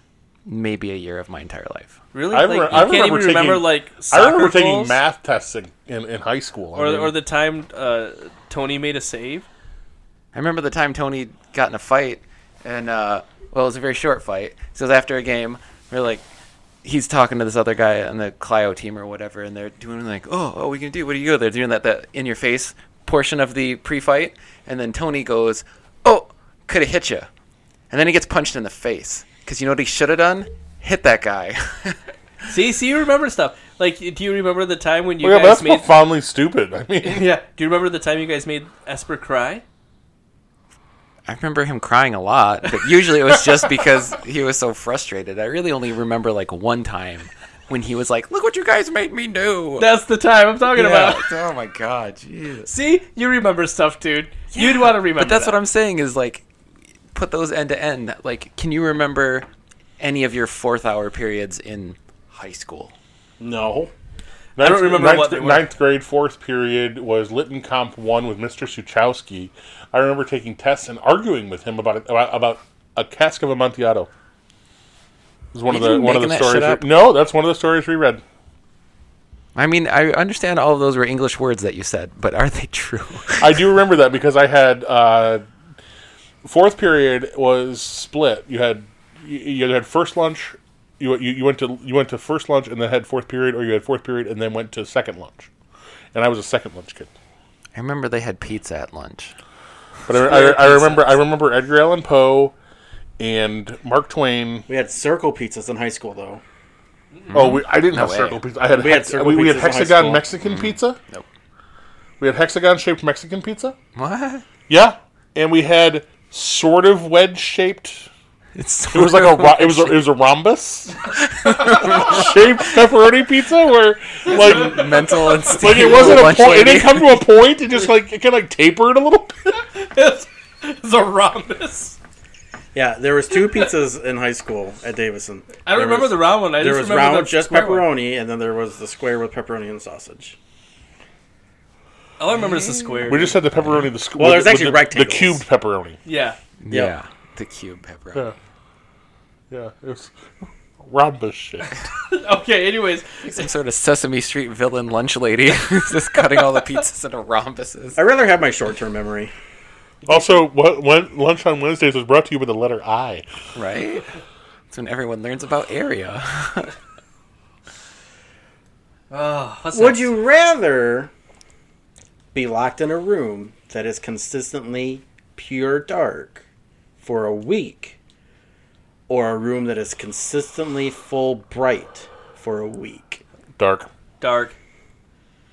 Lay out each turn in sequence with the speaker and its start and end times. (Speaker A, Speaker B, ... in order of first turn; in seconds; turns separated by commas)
Speaker A: 0.5-1.9, Speaker B: 2.1-5.0, Speaker C: 2.3-7.1, Speaker B: 6.7-9.5, Speaker A: 10.3-16.2, Speaker A: 16.8-27.3, Speaker A: 27.9-32.0, Speaker B: 32.5-36.0, Speaker C: 35.2-37.3, Speaker B: 37.0-39.6, Speaker A: 41.2-50.0, Speaker B: 49.8-51.2, Speaker A: 50.7-52.7, Speaker B: 52.6-55.6, Speaker A: 54.5-56.4, Speaker A: 57.1-59.5, Speaker A: 60.0-62.9, Speaker D: 63.4-63.9, Speaker B: 64.6-65.7, Speaker C: 64.6-74.1, Speaker C: 75.5-78.2, Speaker A: 75.7-76.9, Speaker A: 79.5-83.6, Speaker C: 83.4-85.4, Speaker C: 86.4-95.5, Speaker C: 96.1-97.1, Speaker A: 97.7-99.3, Speaker A: 100.1-101.1, Speaker C: 100.1-102.5, Speaker C: 103.2-104.7, Speaker D: 104.7-106.4, Speaker A: 107.3-108.4, Speaker C: 107.3-111.0, Speaker D: 108.7-110.2, Speaker A: 110.4-111.2, Speaker C: 112.2-113.8, Speaker A: 113.9-114.4, Speaker C: 114.7-118.1, Speaker A: 118.5-120.0, Speaker C: 118.9-129.5, Speaker A: 121.2-122.5, Speaker B: 124.3-125.8, Speaker A: 124.3-127.2, Speaker B: 129.5-132.0, Speaker D: 132.7-140.3, Speaker B: 133.4-133.7, Speaker B: 135.7-137.9, Speaker B: 142.2-143.4, Speaker C: 143.0-146.0, Speaker D: 144.2-145.4, Speaker B: 146.0-146.4, Speaker A: 146.6-148.3, Speaker C: 149.5-151.8, Speaker B: 152.0-153.4, Speaker A: 153.2-158.0, Speaker D: 157.9-159.3, Speaker C: 160.1-163.2, Speaker A: 163.5-164.1, Speaker A: 164.7-166.7, Speaker B: 169.1-170.1, Speaker D: 169.7-171.1, Speaker D: 172.3-176.4, Speaker D: 177.0-178.0, Speaker D: 179.1-183.2, Speaker C: 183.6-183.9, Speaker B: 184.2-184.5